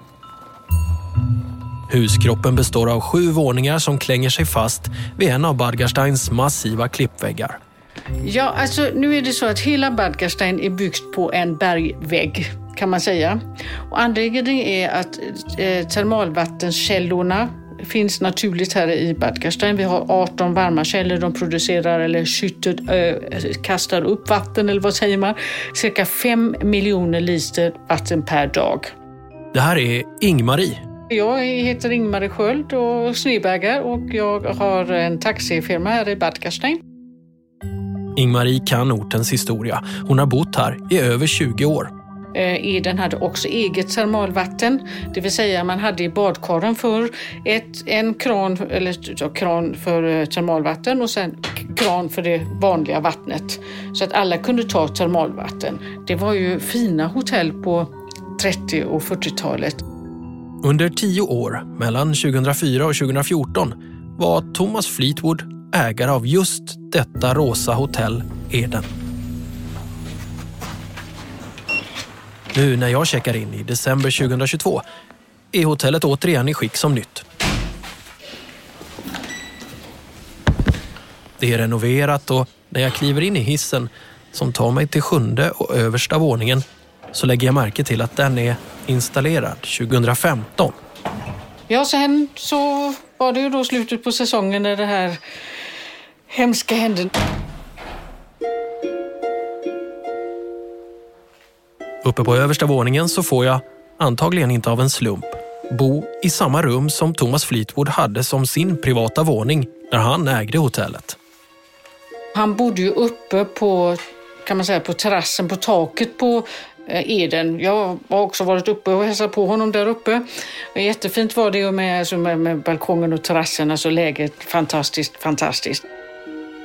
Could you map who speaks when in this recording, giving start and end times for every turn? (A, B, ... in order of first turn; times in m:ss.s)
0:01.9-0:07.6 A
0:08.2-0:28.9 B
0:29.5-0:30.8 A
0:31.1-0:36.8 B
0:38.2-0:41.9 A
0:42.3-0:59.8 B
1:00.6-1:08.9 A
1:12.5-1:14.8 A
1:15.5-1:17.2 A
1:21.4-1:30.8 A
1:31.7-1:35.2 B
1:36.3-1:37.1 B
1:42.0-1:51.2 A
1:52.3-2:05.8 B